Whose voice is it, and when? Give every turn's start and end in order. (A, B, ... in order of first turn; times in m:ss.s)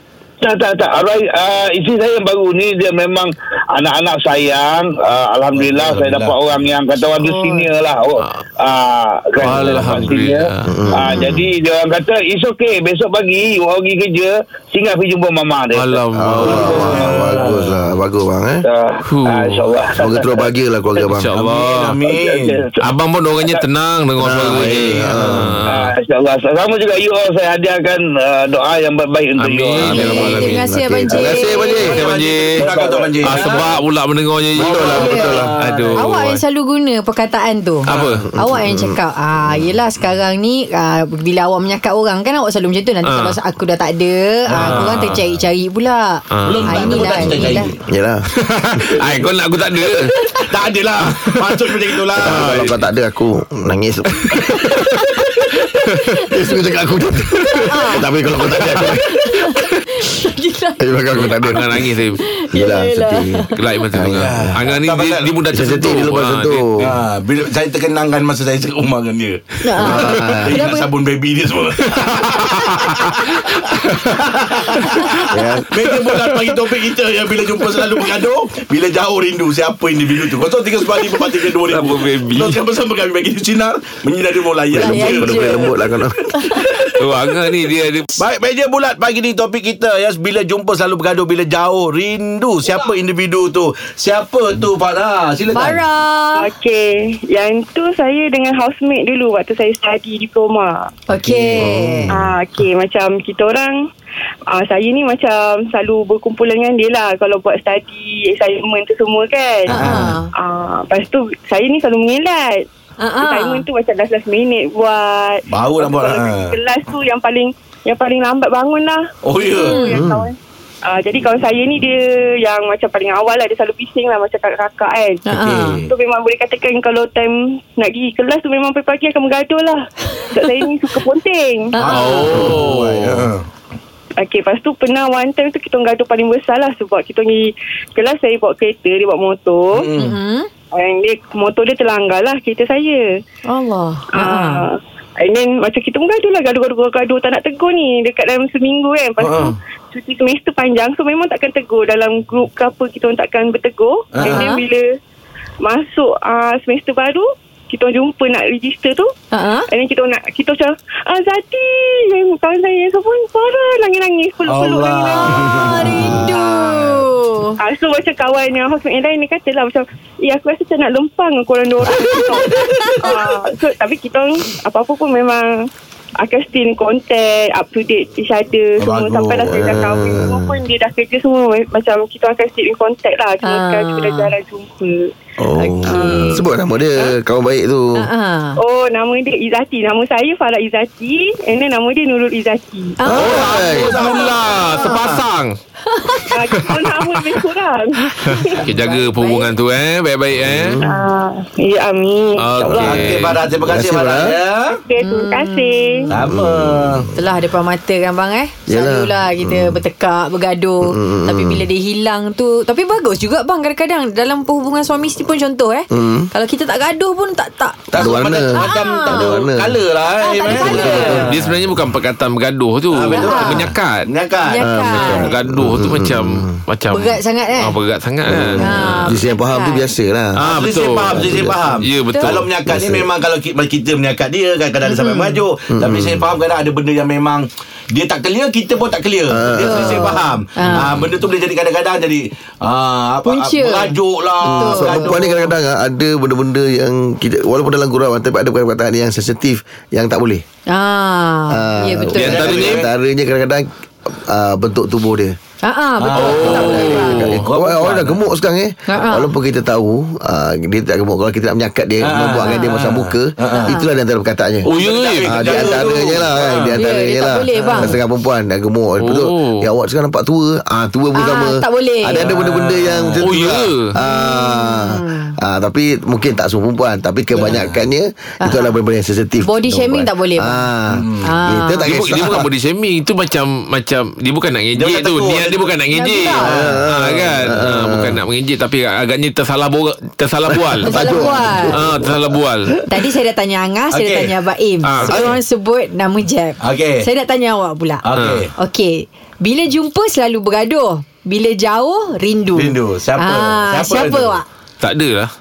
0:00.4-0:16.0 A
0:05.5-0:06.6 B
0:07.2-0:07.7 C
0:09.4-0:10.8 D
0:10.7-0:11.5 E
0:15.7-0:17.0 D
0:16.1-0:18.6 E
0:16.4-0:17.7 B
0:16.6-0:17.1 A
0:18.6-0:20.5 A
0:19.0-0:19.6 D
0:19.9-0:21.3 E
0:21.0-0:22.0 D
0:21.3-0:22.6 B
0:22.0-0:22.8 A
0:22.8-0:25.9 D
0:24.2-0:25.5 E
0:24.5-0:25.5 B
0:25.7-0:29.9 A
0:29.4-0:30.7 D
0:29.8-0:32.0 E
0:29.8-0:32.0 C
0:31.8-0:32.7 D
0:31.8-0:33.7 B
0:32.6-0:33.2 A
0:33.2-0:36.4 D
0:34.6-0:35.6 E
0:34.6-0:36.0 B
0:34.9-0:47.7 C
0:37.8-0:38.3 D
0:38.0-0:39.7 E
0:43.0-0:43.4 D
0:44.5-0:45.3 D
0:46.3-0:47.3 D
0:46.4-0:47.8 B
0:47.8-0:48.2 E
0:48.3-0:50.1 D
0:50.1-0:50.4 C
0:50.5-0:52.7 B
0:51.1-0:52.7 D
0:52.2-0:54.7 E
0:54.3-0:54.8 D
0:54.7-0:56.4 C
0:55.8-0:56.2 D
0:56.3-0:59.6 E
0:57.5-0:58.1 C
0:58.7-1:00.9 C
1:00.8-1:01.8 E
1:01.1-1:02.2 D
1:02.2-1:03.6 C
1:02.5-1:04.6 E
1:03.5-1:06.9 D
1:04.1-1:05.3 B
1:05.5-1:06.9 E
1:06.8-1:25.8 B
1:09.6-1:10.9 C
1:09.8-1:10.6 E
1:11.8-1:14.1 D
1:15.3-1:15.7 E
1:21.5-1:22.6 D
1:24.7-1:26.2 E
1:24.8-1:25.7 C
1:26.3-1:26.7 C
1:26.5-1:26.9 B
1:27.0-1:28.2 D
1:28.2-1:35.8 B
1:35.5-1:36.5 C
1:36.4-1:40.9 F
1:41.1-1:42.1 C
1:41.3-1:41.6 B
1:41.6-1:42.1 E
1:42.1-1:43.8 F
1:44.5-1:49.8 F
1:49.7-1:50.2 B
1:49.7-1:50.3 C
1:50.3-1:52.6 F
1:53.0-1:53.6 C
1:53.2-2:05.2 F
1:55.5-1:56.6 B
1:59.2-1:59.9 B
1:59.6-2:00.0 C
1:59.9-2:00.3 E
2:05.2-2:05.8 C
2:05.3-2:05.9 B
2:05.9-2:11.8 F
2:11.7-2:12.5 C
2:11.8-2:13.4 B
2:11.8-2:13.3 D
2:14.2-2:19.9 F
2:19.7-2:20.2 B
2:20.0-2:20.5 C
2:20.7-2:23.1 F
2:23.5-2:24.6 C
2:24.1-2:34.9 F
2:29.2-2:29.5 B
2:34.1-2:34.5 B
2:34.2-2:34.6 C
2:35.6-2:39.1 F
2:39.3-2:39.7 C
2:39.7-2:45.8 F
2:44.4-2:47.0 B
2:45.1-2:47.6 C
2:47.6-2:55.7 F
2:51.9-2:53.1 C
2:52.5-2:53.0 B
2:56.2-3:05.1 F
2:58.8-2:59.9 B
2:59.5-3:00.5 E
3:03.4-3:04.3 C
3:05.4-3:08.1 E
3:05.6-3:06.4 C
3:08.0-3:08.6 C
3:08.6-3:13.0 F
3:13.0-3:13.9 C
3:13.0-3:14.0 E
3:13.1-3:15.2 B
3:13.2-3:15.6 D
3:15.9-3:16.3 C
3:16.3-3:18.6 F
3:16.4-3:17.4 D
3:18.3-3:20.8 D
3:18.4-3:19.5 C
3:20.4-3:21.0 E
3:20.8-3:23.0 F
3:22.4-3:23.4 D
3:22.7-3:24.8 B
3:23.6-3:24.4 E
3:24.8-3:26.1 F
3:25.0-3:26.1 C
3:26.1-3:27.1 B
3:26.2-3:27.1 E
3:27.1-3:37.9 C
3:28.7-3:29.8 E
3:30.8-3:31.6 E
3:35.9-3:36.3 E
3:37.9-3:41.2 B
3:37.9-3:39.8 E
3:38.5-3:39.3 C
3:40.2-3:41.3 C
3:40.4-3:41.6 E
3:41.2-3:44.1 D
3:42.9-3:44.7 B
3:43.1-3:43.7 C
3:44.4-3:45.3 C
3:44.6-3:46.6 E
3:44.9-3:49.1 D
3:46.9-3:47.8 C
3:48.2-3:50.4 E
3:48.6-3:49.8 C
3:50.4-3:52.5 D
3:50.4-4:05.3 B
3:51.1-3:51.6 E
3:52.1-3:52.4 C
3:52.6-3:53.1 E
3:54.8-3:55.4 C
3:55.7-3:56.3 E
3:59.3-4:00.1 E
3:59.6-4:00.9 C
4:03.2-4:05.4 C
4:04.4-4:10.4 E
4:10.7-4:12.4 C
4:11.5-4:15.3 E
4:12.1-4:12.8 D
4:12.2-4:12.9 B
4:15.6-4:17.4 C
4:16.0-4:16.8 B
4:16.1-4:17.5 D
4:16.4-4:24.7 E
4:17.4-4:18.2 B
4:18.9-4:19.3 C
4:22.0-4:23.7 B
4:22.4-4:22.7 C
4:23.5-4:23.9 C
4:24.6-4:25.7 D
4:24.7-4:26.8 B
4:25.2-4:42.5 E
4:26.7-4:28.0 C
4:27.6-4:27.9 B
4:29.0-4:29.7 D
4:31.1-4:32.2 C
4:32.2-4:33.2 B
4:33.2-4:33.9 D
4:34.0-4:35.4 C
4:37.3-4:37.8 B
4:38.4-4:38.7 C
4:39.4-4:40.7 C
4:40.9-4:41.3 B
4:41.2-4:41.9 C
4:41.8-4:52.7 D
4:44.8-4:45.7 B
4:45.9-4:46.5 C
4:46.4-4:46.8 B
4:46.4-4:48.2 E
4:50.7-4:52.4 E
4:50.8-4:51.8 C
4:52.9-4:58.0 C
4:53.9-4:54.3 B
4:54.8-4:55.3 D
4:56.6-4:57.1 B
4:58.0-4:58.5 B
4:58.1-4:58.4 D
4:58.6-5:04.4 C
5:02.5-5:04.4 B
5:04.8-5:05.3 D